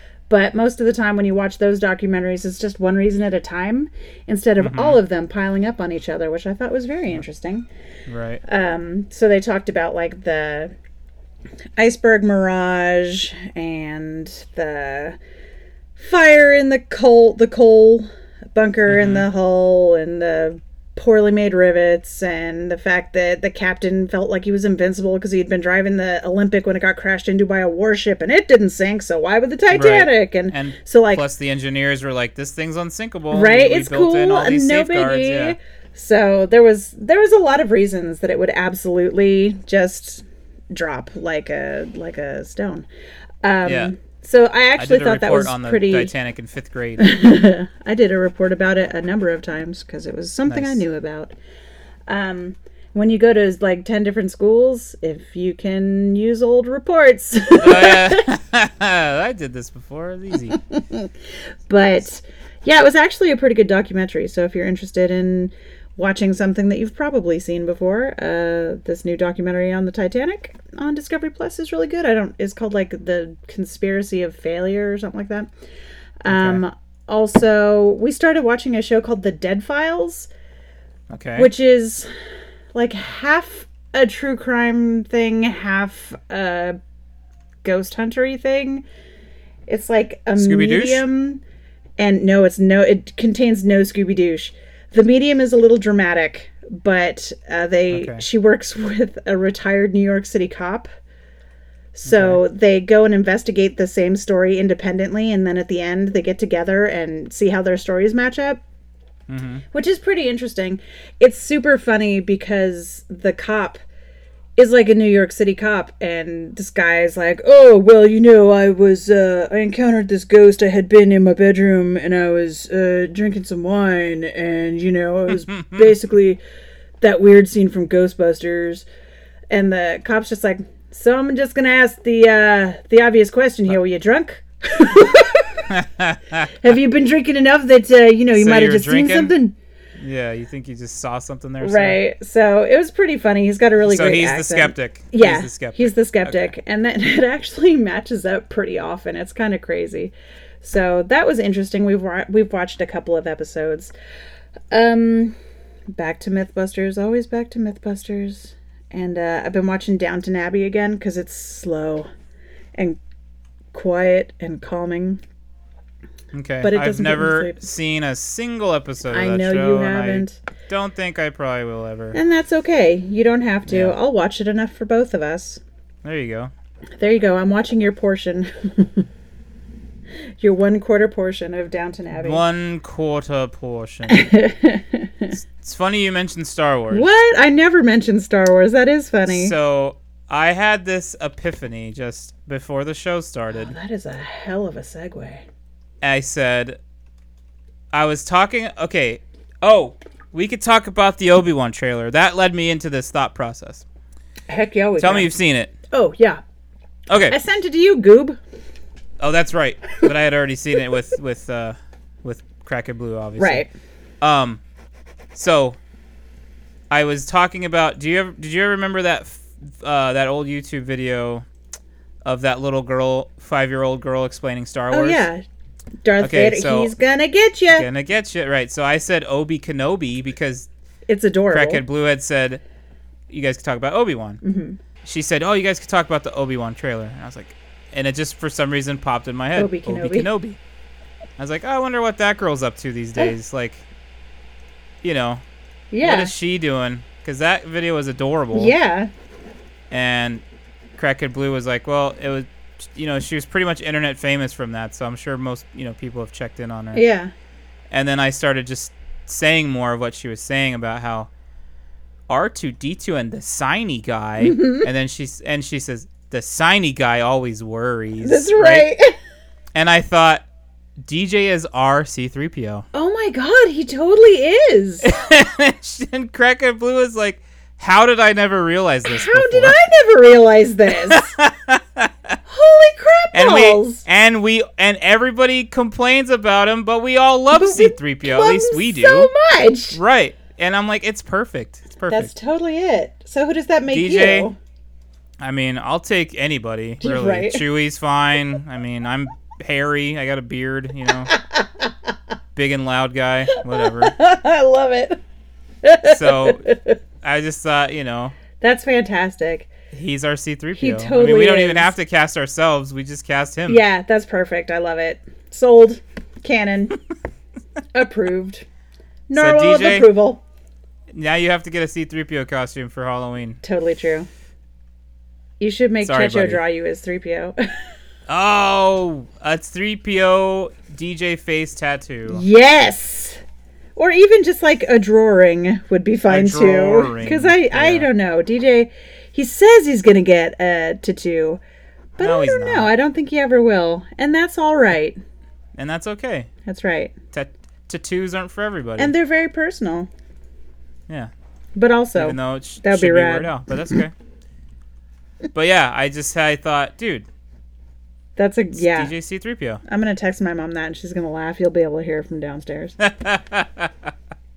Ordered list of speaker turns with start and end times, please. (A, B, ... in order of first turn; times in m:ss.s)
0:00.3-0:07.7 A
0:04.6-0:05.0 B
0:08.1-0:08.4 B
0:08.4-0:10.8 A
0:11.8-0:15.2 A
0:16.0-0:31.2 A
0:18.9-0:19.3 B
0:29.7-0:35.6 B
0:33.3-0:42.9 A
0:43.4-0:46.1 A
0:43.6-0:43.9 B
0:44.8-0:47.1 B
0:47.0-0:51.3 A
0:50.5-0:50.8 B
0:52.1-0:58.3 A
0:57.6-1:00.6 B
1:00.5-1:01.1 A
1:01.7-1:15.5 A
1:16.2-1:20.3 A
1:16.3-1:16.6 B
1:21.1-1:21.5 B
1:21.4-1:22.1 A
1:22.7-1:26.8 A
1:27.6-1:28.8 A
1:29.7-1:31.4 A
1:30.4-1:31.0 B
1:32.0-1:40.9 A
1:37.9-1:38.2 B
1:42.0-1:48.6 A
1:42.0-1:42.4 B
1:49.3-1:49.6 B
1:49.7-1:53.8 A
1:54.6-2:06.4 A
2:05.3-2:05.9 B
2:07.0-2:08.9 A
2:09.5-2:15.7 A
2:15.7-2:16.7 B
2:16.6-2:19.6 A
2:18.3-2:19.4 B
2:20.0-2:22.0 B
2:21.6-2:33.9 A
2:23.8-2:26.5 B
2:34.7-2:35.4 A
2:35.9-2:42.1 A
2:43.7-2:45.2 A
2:46.3-2:52.2 B
2:46.6-2:47.6 A
2:49.1-2:50.4 A
2:52.1-2:55.6 A
2:53.7-2:54.0 B
2:56.0-2:56.5 B
2:57.0-2:59.1 A
3:00.4-3:02.4 A
3:02.1-3:04.3 B
3:04.1-3:05.4 A
3:05.4-3:07.1 B
3:06.9-3:09.6 A
3:09.3-3:13.7 B
3:13.5-3:15.4 A
3:16.0-3:16.8 B
3:17.9-3:23.8 B
3:24.5-3:25.3 A
3:25.0-3:25.7 B
3:25.9-3:26.4 A
3:27.1-3:27.4 B
3:27.3-3:28.4 A
3:29.2-3:33.6 B
3:33.4-3:33.7 A
3:34.2-3:34.6 B
3:35.3-3:35.8 B
3:36.9-3:41.5 B
3:42.2-3:45.3 B
3:44.9-3:45.4 A
3:46.0-3:47.9 A
3:46.2-3:46.9 B
3:47.7-3:50.7 B
3:51.1-3:51.8 A
3:51.5-3:52.6 B
3:53.3-3:54.4 B
3:54.4-3:54.8 A
3:55.0-4:00.6 B
3:59.6-4:00.3 A
4:01.4-4:03.8 B
4:05.0-4:05.4 B
4:05.9-4:06.3 A
4:06.0-4:08.7 B
4:08.5-4:09.1 A
4:09.9-4:10.4 B
4:11.0-4:17.0 B
4:16.9-4:17.3 A
4:17.9-4:21.3 B
4:22.3-4:28.9 B
4:24.4-4:24.9 A
4:28.2-4:29.1 A
4:29.7-4:30.4 B
4:31.0-4:32.9 B
4:32.9-4:35.1 A
4:35.0-4:39.8 B
4:39.1-4:41.4 A
4:40.9-4:42.4 B
4:42.5-4:44.0 A
4:43.3-4:49.3 B
4:47.5-4:50.0 A
4:49.9-4:52.3 B
4:52.1-4:54.6 A
4:53.9-4:54.5 B
4:55.4-5:01.3 B
4:57.0-4:57.6 A
5:01.3-5:01.9 A
5:02.6-5:04.1 B
5:03.5-5:05.2 A
5:05.8-5:07.0 A
5:06.0-5:06.7 B
5:07.2-5:08.4 B
5:08.6-5:09.7 A
5:09.9-5:13.8 B
5:10.8-5:11.9 A
5:13.7-5:17.0 A
5:17.9-5:18.6 A
5:19.3-5:20.4 A
5:19.3-5:20.1 B
5:21.1-5:23.6 B
5:23.6-5:24.3 A
5:25.6-5:27.6 A
5:26.0-5:26.6 B
5:28.3-5:32.4 B
5:32.3-5:33.4 A
5:34.0-5:41.6 A
5:36.3-5:38.1 B
5:42.2-5:45.2 A
5:42.2-5:42.9 B
5:45.8-5:46.5 B
5:46.7-5:47.2 A
5:47.3-5:49.1 B
5:49.0-5:50.1 A
5:51.8-5:53.6 A
5:52.2-5:54.1 B
5:55.5-5:57.3 B
5:58.4-5:59.1 A
5:58.7-5:59.8 B
5:59.8-6:03.0 A
6:03.0-6:04.1 B